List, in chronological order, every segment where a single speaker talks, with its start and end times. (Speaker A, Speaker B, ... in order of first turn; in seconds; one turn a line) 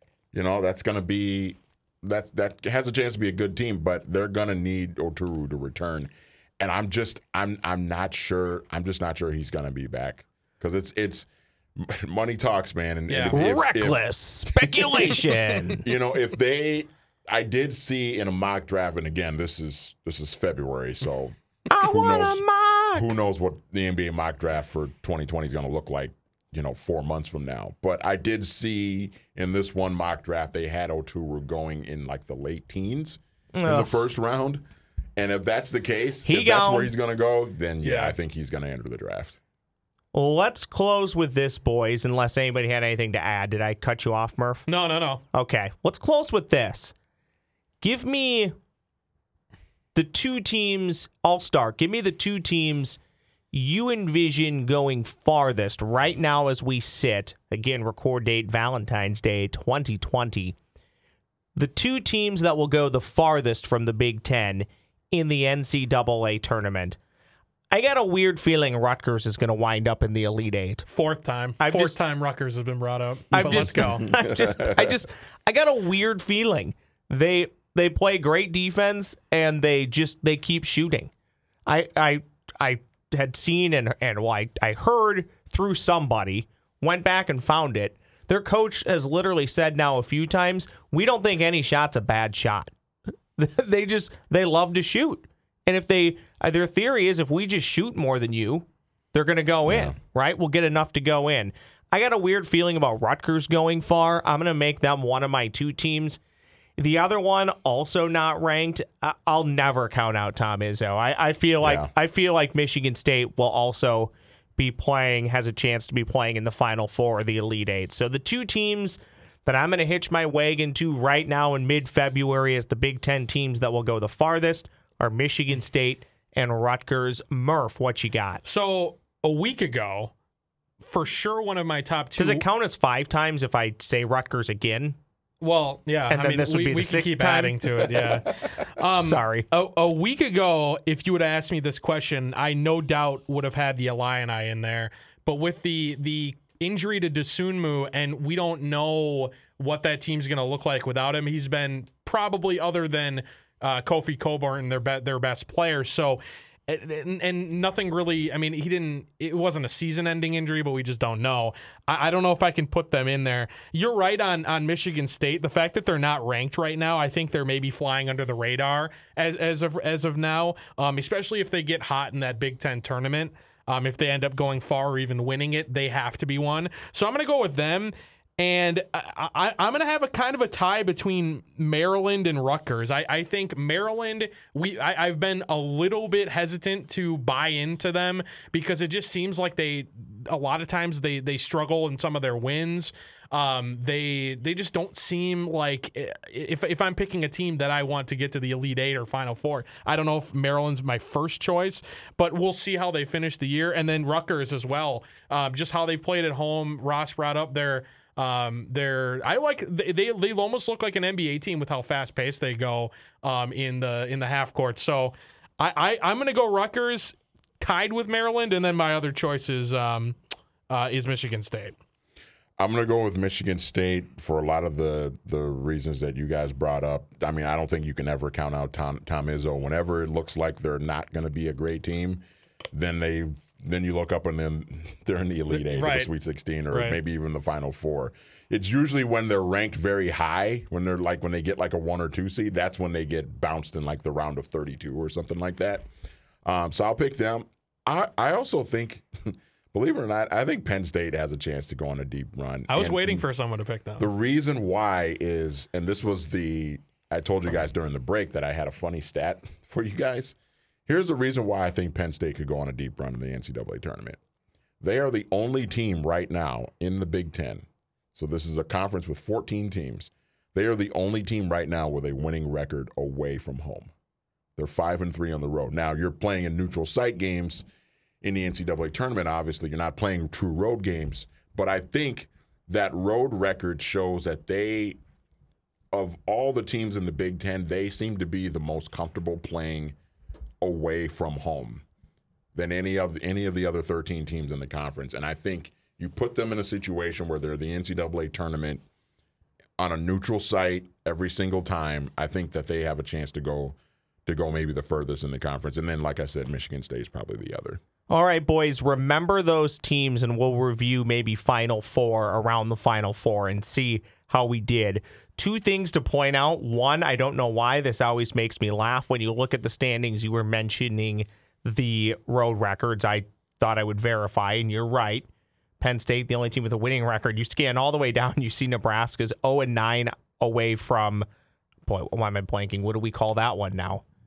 Speaker A: 0.3-14.7
Speaker B: 13.1-13.4
Speaker C: 13.3-15.8
Speaker A: 15.8-22.4
Speaker C: 21.7-23.1
Speaker A: 22.9-34.6
Speaker C: 33.5-33.9
Speaker A: 35.2-39.4
Speaker C: 36.2-36.9
Speaker B: 37.8-38.1
Speaker C: 40.1-44.6
Speaker B: 44.7-45.2
Speaker C: 45.3-46.9
Speaker C: 47.8-48.5
Speaker C: 49.9-53.0
Speaker C: 53.5-60.5
Speaker C: 61.5-67.0
Speaker C: 67.7-70.8
Speaker B: 70.9-74.1
Speaker C: 71.6-71.9
Speaker C: 73.3-81.1
Speaker A: 74.0-74.9
Speaker C: 81.7-92.7
Speaker C: 93.4-106.2
Speaker A: 99.7-99.9
Speaker C: 106.8-128.4
Speaker A: 111.6-111.9
Speaker B: 128.4-130.1
Speaker B: 130.8-132.4
Speaker C: 132.2-135.0
Speaker B: 135.4-220.2
Speaker C: 136.1-137.7
Speaker C: 138.9-139.5
Speaker B: 220.7-221.7
Speaker A: 222.6-245.9
Speaker B: 235.5-236.1
Speaker B: 236.7-237.0
Speaker A: 246.4-253.2
Speaker B: 252.7-254.1
Speaker A: 254.0-260.4
Speaker A: 260.9-264.2
Speaker A: 264.8-273.9
Speaker A: 274.6-277.6
Speaker A: 278.2-285.0
Speaker A: 285.9-289.9
Speaker A: 290.6-291.8
Speaker A: 292.5-298.8
Speaker A: 299.8-307.8
Speaker C: 308.1-325.3
Speaker C: 325.8-331.2
Speaker C: 331.9-334.0